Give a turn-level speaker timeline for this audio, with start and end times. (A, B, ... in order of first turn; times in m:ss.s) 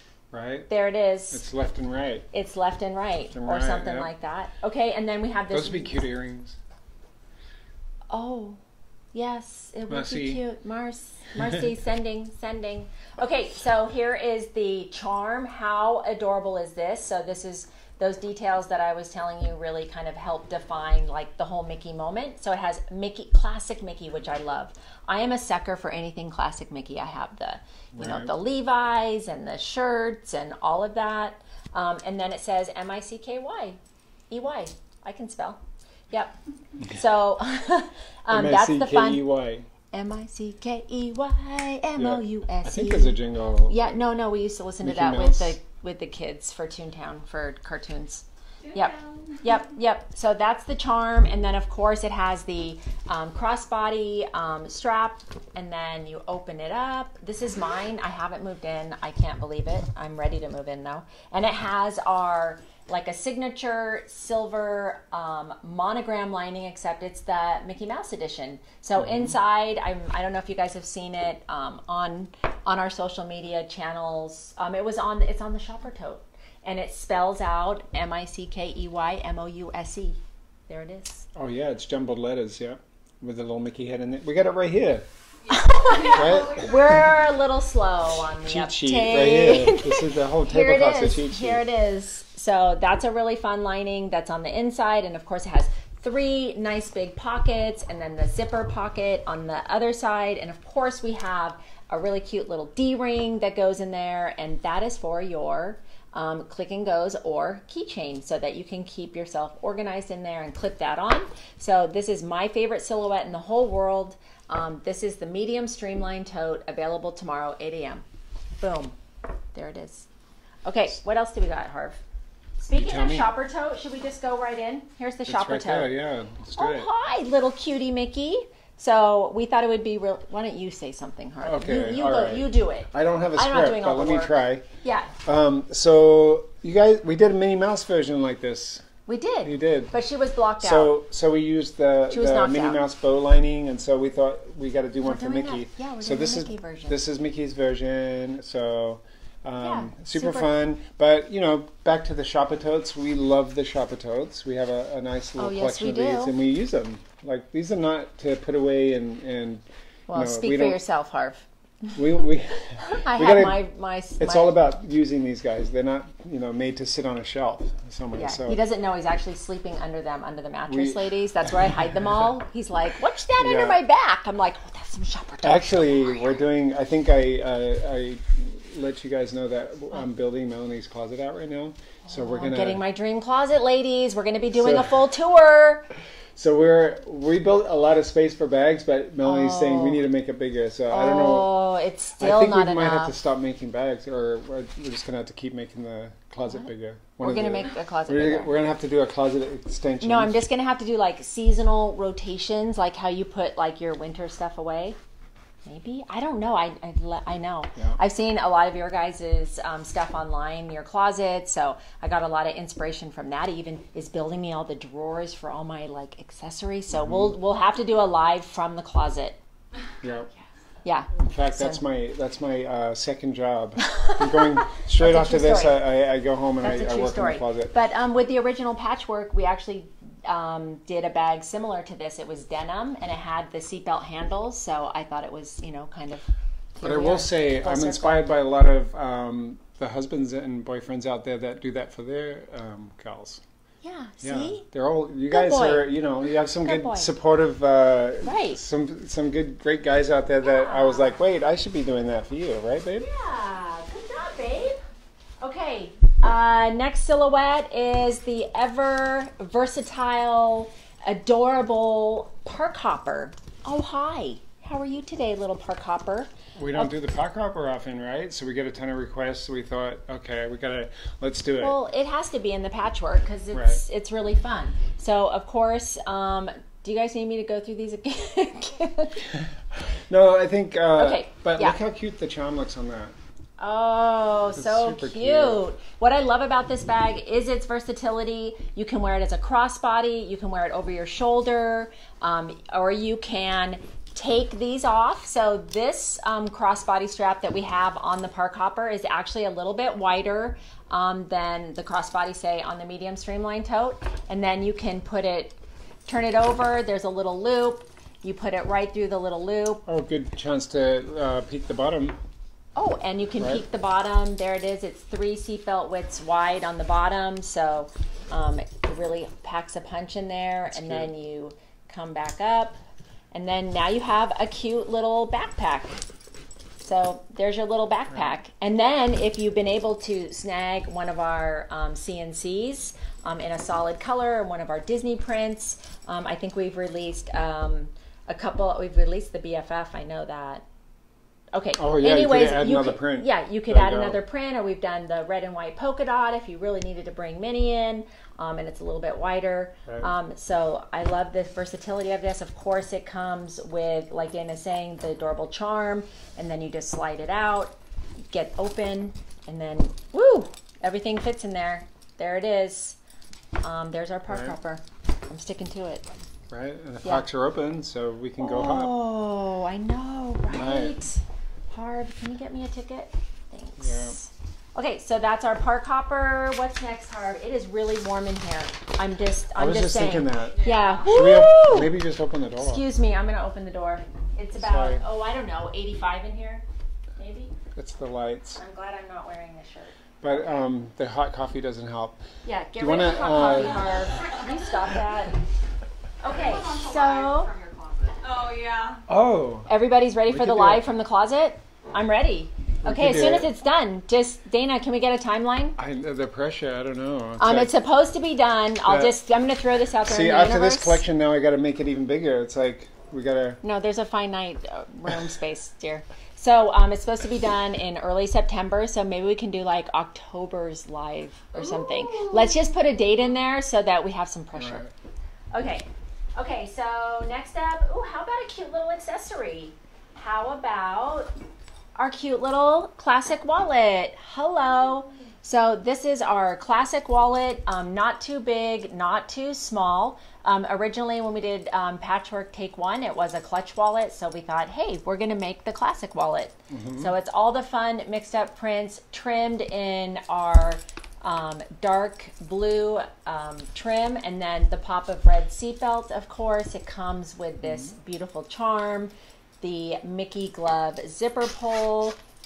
0:00.3-0:00.7 A
0:00.7-0:01.4 B
0:01.3-0:02.3 A
0:02.3-0:06.0 B
0:03.3-0:04.1 A
0:05.5-0:06.6 A
0:08.1-0:08.6 B
0:09.1-0:33.8 B
0:09.9-0:10.4 A
0:28.0-0:28.3 A
0:34.3-0:35.6 B
0:36.1-0:39.2 B
0:38.3-0:39.7 A
0:39.9-1:21.3 B
0:42.0-0:44.0 A
0:44.8-0:45.5 A
0:48.6-0:49.4 C
1:09.0-1:09.4 A
1:21.3-1:25.0 A
1:25.4-1:27.2 C
1:25.5-1:58.0 B
1:26.0-1:26.7 A
1:28.4-1:31.6 A
1:58.6-1:58.9 B
1:59.5-2:00.1 B
2:00.6-2:02.0 B
2:02.6-2:05.9 B
2:02.7-2:03.3 A
2:05.2-2:06.9 A
2:06.6-2:15.1 B
2:11.4-2:14.6 A
2:15.2-2:18.9 A
2:19.1-2:20.9 B
2:19.4-2:19.9 A
2:20.6-2:40.8 A
2:22.1-2:22.8 B
2:25.0-2:27.0 B
2:29.6-2:30.5 B
2:35.4-2:36.3 B
2:40.1-2:41.9 B
2:41.9-2:43.6 A
2:42.8-2:44.5 B
2:44.2-2:48.6 A
2:48.1-2:56.2 B
2:50.7-2:52.2 A
2:53.4-2:53.8 A
2:55.4-3:02.8 A
3:02.1-3:05.8 B
3:04.5-3:05.0 A
3:06.3-3:11.5 A
3:09.2-3:10.0 B
3:10.9-3:13.1 B
3:12.2-3:20.4 A
3:17.2-3:18.5 B
3:20.0-3:25.0 B
3:25.6-3:39.4 B
3:36.9-3:37.3 A
3:40.0-3:40.3 A
3:40.8-3:41.8 B
3:41.1-3:47.7 A
3:43.8-3:45.8 B
3:46.6-3:58.2 B
3:56.8-4:03.4 A
4:03.8-4:04.6 B
4:04.2-4:13.1 A
4:05.3-4:05.8 B
4:06.6-4:07.1 B
4:08.2-4:08.6 B
4:10.4-4:11.2 B
4:13.0-4:14.8 B
4:15.4-4:26.9 B
4:26.6-4:31.8 A
4:31.6-4:39.3 B
4:33.5-4:33.8 A
4:39.3-4:43.1 A
4:41.0-4:41.8 B
4:43.6-5:09.8 B
4:44.6-4:45.6 A
5:09.9-5:12.2 A
5:12.8-5:22.8 B
5:20.7-5:21.1 A
5:23.3-5:26.0 B
5:26.8-5:40.6 B
5:41.5-5:57.7 B
5:41.8-5:44.2 A
5:58.3-6:03.0 B
6:03.6-6:06.1 B
6:04.3-6:04.6 A
6:06.5-6:08.9 A
6:08.4-6:21.9 B
6:10.5-6:11.0 A
6:13.8-6:14.2 A
6:19.5-6:22.8 A
6:20.5-6:21.1 C
6:22.6-6:26.6 B
6:24.6-6:25.0 A
6:27.2-6:27.5 B
6:27.7-6:28.6 A
6:28.6-6:30.4 B
6:30.2-6:32.2 A
6:32.4-6:35.4 B
6:32.7-6:34.1 A
6:36.2-6:37.5 B
6:36.2-6:39.0 C
6:39.1-6:39.7 A
6:39.7-6:45.8 B
6:40.3-6:40.8 A
6:42.8-6:43.5 A
6:45.8-6:47.7 A
6:47.4-6:51.0 B
6:48.8-6:49.1 A
6:50.0-6:53.6 A
6:53.6-7:04.8 B
7:01.9-7:02.6 C
7:04.5-7:04.9 A
7:05.5-7:11.3 B
7:12.0-7:42.2 B
7:26.7-7:27.1 A
7:37.6-7:37.9 A